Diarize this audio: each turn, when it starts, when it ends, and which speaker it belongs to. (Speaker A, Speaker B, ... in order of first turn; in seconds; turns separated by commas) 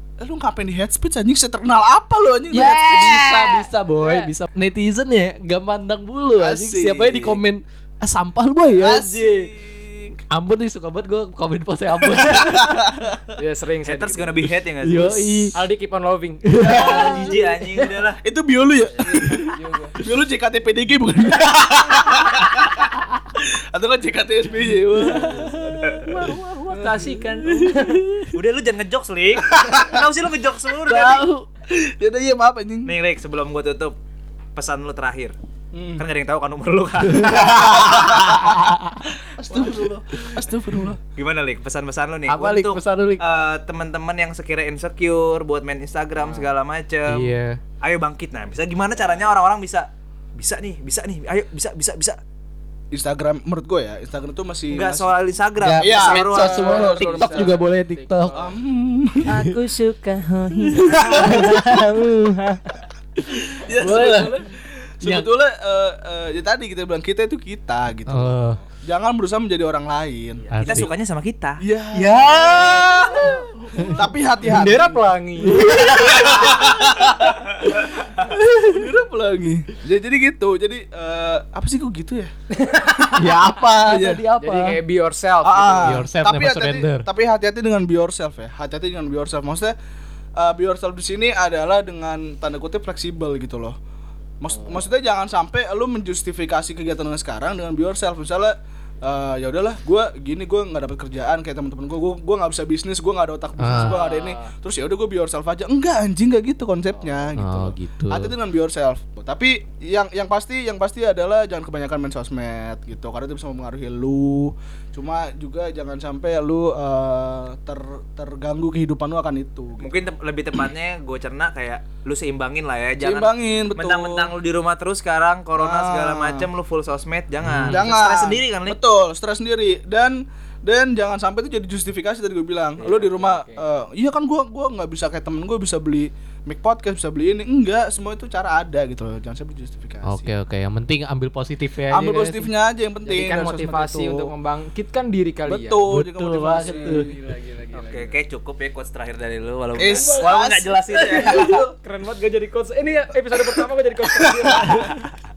Speaker A: 0.2-3.7, Speaker B: 2.5-9.5, Speaker C: 4.0-4.3, Speaker A: 6.4-7.4, Speaker A: 8.8-10.2, Speaker B: 10.3-12.8, Speaker A: 12.1-12.4, Speaker C: 13.4-14.3, Speaker D: 13.8-15.2, Speaker B: 14.8-15.5, Speaker C: 15.5-18.0, Speaker B: 16.5-17.2, Speaker A: 16.6-17.4, Speaker D: 16.7-18.2, Speaker A: 18.2-19.5, Speaker C: 18.9-19.9, Speaker A: 20.0-22.9, Speaker A: 23.7-26.2, Speaker C: 25.0-28.1, Speaker B: 25.1-25.5, Speaker B: 27.8-28.3, Speaker D: 28.3-31.2, Speaker A: 29.5-30.0, Speaker A: 30.9-32.9, Speaker B: 31.1-31.4, Speaker D: 32.8-34.0, Speaker D: 34.5-35.4, Speaker A: 35.7-36.0, Speaker D: 36.0-38.2, Speaker B: 37.1-39.0, Speaker A: 37.4-38.4, Speaker A: 39.4-41.0, Speaker D: 41.1-52.2, Speaker B: 42.3-43.2, Speaker B: 47.1-47.6, Speaker A: 52.9-55.1, Speaker D: 54.7-56.6, Speaker B: 55.6-58.3, Speaker A: 55.8-57.6, Speaker C: 56.3-58.6, Speaker A: 58.3-59.3, Speaker C: 59.3-62.6, Speaker B: 60.9-61.9, Speaker B: 63.3-64.4, Speaker A: 63.7-64.4, Speaker C: 63.9-64.4, Speaker A: 65.0-70.8, Speaker B: 65.0-65.3, Speaker B: 68.1-68.6, Speaker B: 70.5-70.9, Speaker D: 70.5-72.9, Speaker A: 71.6-75.0, Speaker B: 73.8-74.0, Speaker C: 74.5-75.7, Speaker B: 75.4-76.7, Speaker A: 75.8-77.4, Speaker A: 78.6-82.3, Speaker C: 82.6-83.3, Speaker B: 83.2-84.8, Speaker A: 83.8-84.2, Speaker C: 84.4-86.0, Speaker A: 85.4-89.7, Speaker B: 85.8-87.1, Speaker A: 90.4-93.8, Speaker A: 94.4-119.8, Speaker C: 94.5-94.8, Speaker B: 103.6-104.0, Speaker C: 103.7-104.5, Speaker C: 106.9-107.3, Speaker B: 107.4-108.3, Speaker D: 119.8-128.8, Speaker A: 123.0-124.3, Speaker A: 125.6-126.5, Speaker B: 127.4-127.9, Speaker A: 127.7-140.3, Speaker C: 132.8-133.6, Speaker B: 140.0-142.5, Speaker A: 141.9-144.3, Speaker C: 143.1-145.8, Speaker A: 145.4-147.1, Speaker B: 145.9-147.1, Speaker C: 146.6-148.2, Speaker D: 147.7-151.6, Speaker A: 149.8-151.7, Speaker C: 149.8-150.3, Speaker C: 151.0-154.9